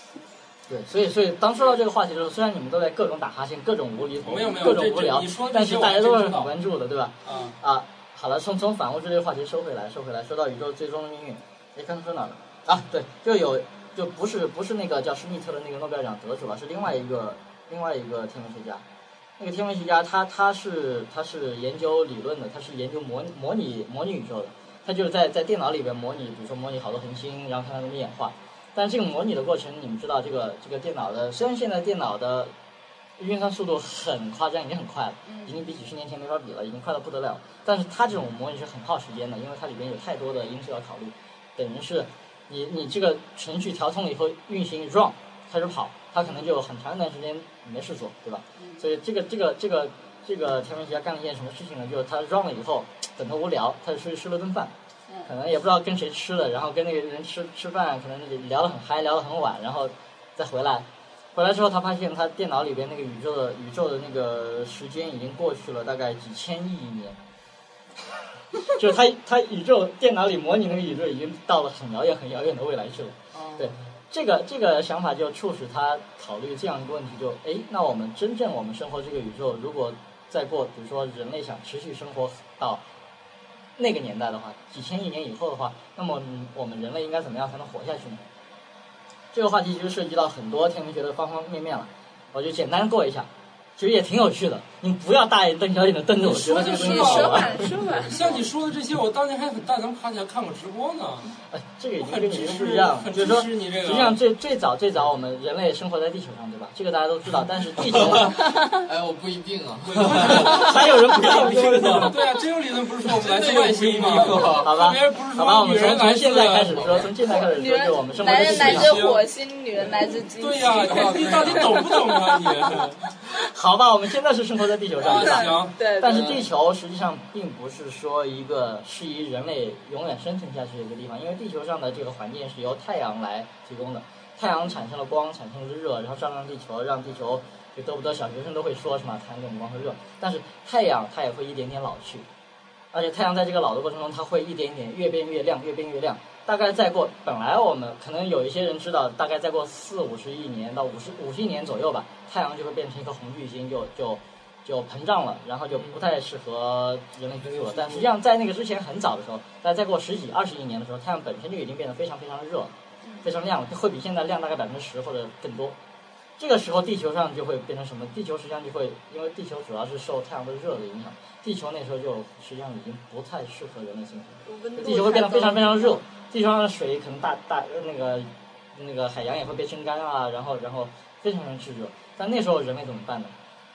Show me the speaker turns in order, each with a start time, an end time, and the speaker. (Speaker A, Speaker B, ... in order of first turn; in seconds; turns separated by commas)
Speaker A: 0.7-18.8, Speaker B: 4.2-6.5, Speaker B: 7.2-7.5, Speaker A: 19.4-32.5, Speaker A: 33.2-54.7, Speaker C: 35.2-35.6, Speaker C: 48.6-48.8, Speaker A: 55.2-67.2, Speaker A: 68.6-82.8, Speaker B: 73.3-73.7, Speaker A: 83.8-88.2, Speaker A: 89.3-97.7, Speaker B: 96.2-101.3, Speaker C: 96.4-98.2, Speaker D: 98.0-98.4, Speaker A: 101.5-108.4, Speaker B: 102.0-104.2, Speaker D: 107.9-112.1, Speaker C: 108.5-108.8, Speaker B: 109.8-117.0, Speaker A: 110.2-112.2, Speaker D: 113.1-114.7, Speaker A: 114.3-119.0, Speaker D: 116.7-117.1, Speaker C: 117.2-122.5, Speaker B: 118.2-119.2, Speaker B: 120.3-123.2, Speaker D: 120.6-121.7, Speaker A: 123.3-142.3, Speaker B: 125.0-126.4, Speaker C: 125.0-126.4, Speaker A: 142.9-165.8, Speaker B: 155.7-156.0, Speaker B: 157.4-158.1, Speaker A: 166.4-183.3, Speaker C: 174.4-176.0